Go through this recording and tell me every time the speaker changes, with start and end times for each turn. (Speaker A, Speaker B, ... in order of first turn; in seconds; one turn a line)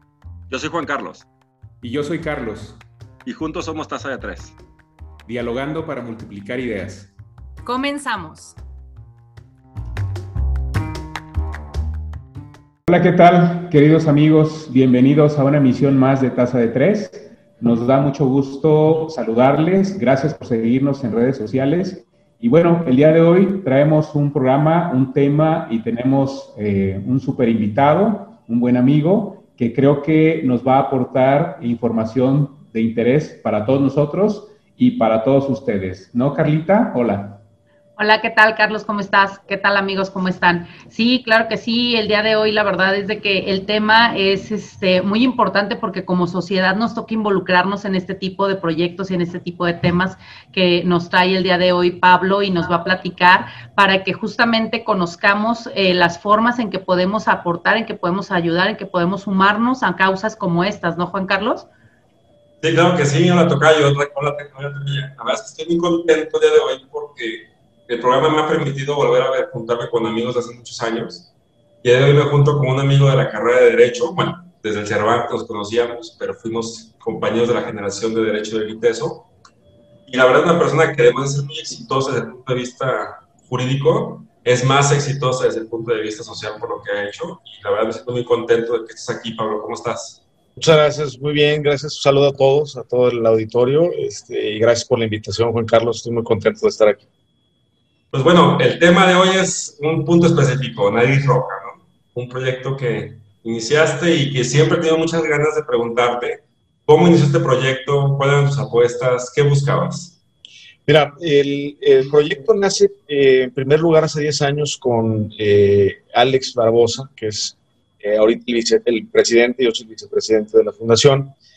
Speaker A: 0.5-1.2
Speaker B: 1.8-2.8
Speaker A: 3.2-4.5
Speaker B: 5.2-7.1
Speaker C: 7.6-8.5
Speaker B: 12.8-37.4
Speaker C: 38.0-61.7
Speaker D: 62.6-71.3
Speaker D: 71.8-79.3
Speaker D: 80.1-90.2
Speaker E: 90.5-97.1
Speaker D: 98.1-110.2
Speaker E: 110.9-121.3